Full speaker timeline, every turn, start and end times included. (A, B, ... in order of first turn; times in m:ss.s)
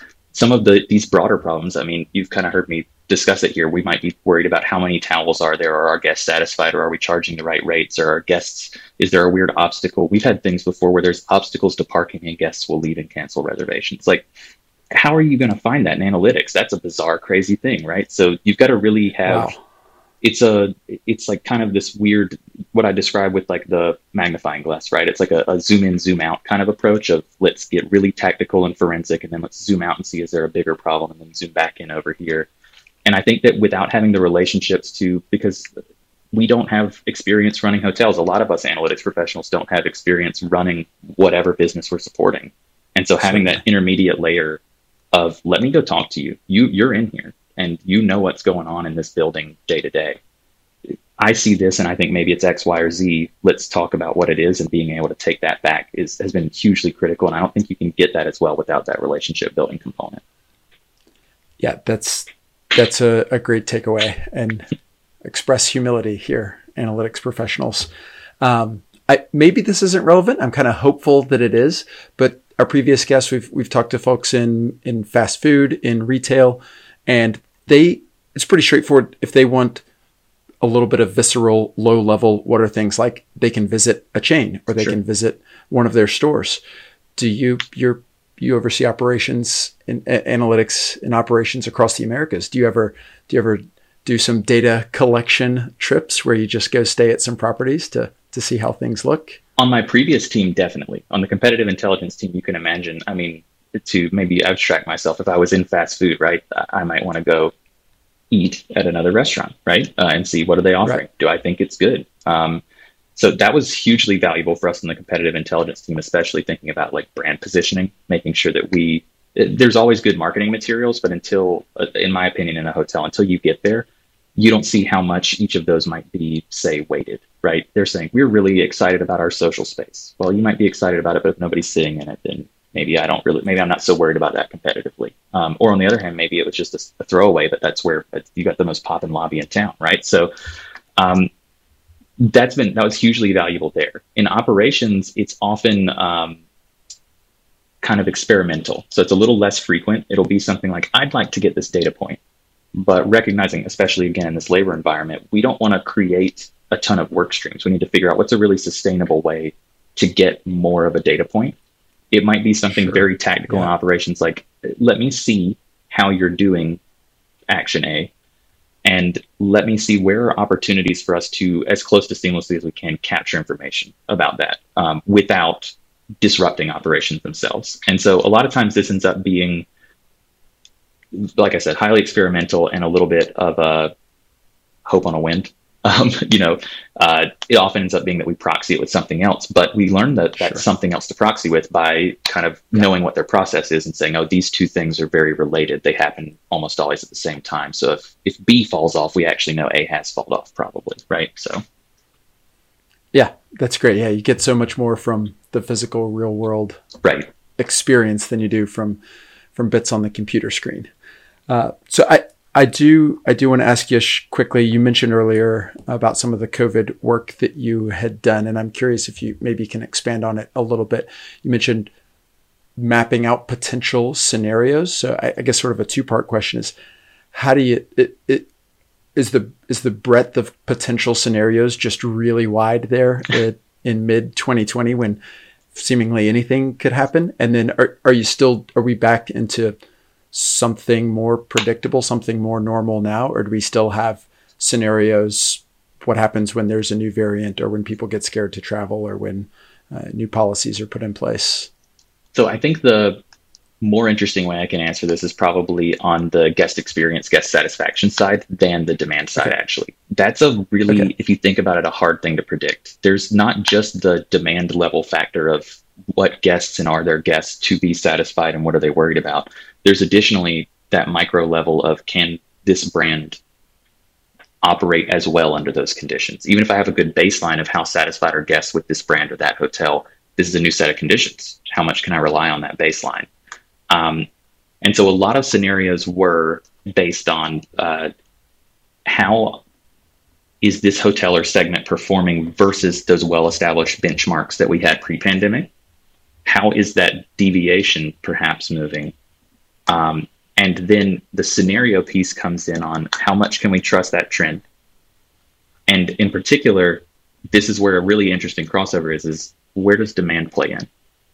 0:00.3-0:14.3 A
0:14.9-0:19.5 A
0:19.2-0:19.6 B
0:20.2-0:32.5 A
0:33.0-0:35.7 A
0:36.3-0:44.6 A
0:43.2-0:43.6 B
0:45.1-0:50.2 A
0:51.2-1:00.2 A
1:01.6-1:04.7 B
1:05.2-1:07.9 B
1:08.4-1:19.8 B
1:20.6-1:26.6 B
1:27.2-1:39.4 B
1:39.6-1:47.5 A
1:48.3-1:52.6 A
1:53.2-2:20.3 A
2:21.0-2:21.3 A
2:22.2-2:26.4 A
2:27.8-2:32.2 A
2:32.8-2:41.6 A
2:42.1-2:46.8 A
2:42.7-2:43.7 B
2:47.5-2:48.1 A
2:48.8-2:59.6 A
3:01.1-3:03.9 A
3:04.9-3:21.6 A
3:23.1-3:26.8 B
3:27.0-3:27.3 A
3:27.6-3:29.0 B
3:29.6-3:30.9 B
3:31.5-3:41.9 B
3:42.8-3:46.7 B
3:47.3-3:48.5 B
3:49.1-3:55.2 B
3:55.7-3:59.8 B
4:00.3-4:11.7 B
4:12.4-4:13.2 A
4:13.8-4:33.4 A
4:34.6-4:43.3 A
4:43.9-4:44.3 A
4:44.8-4:48.1 A
4:49.1-4:49.6 A
4:50.6-4:55.7 A
4:56.4-4:59.1 A
4:59.9-5:04.6 A
5:05.9-5:10.9 A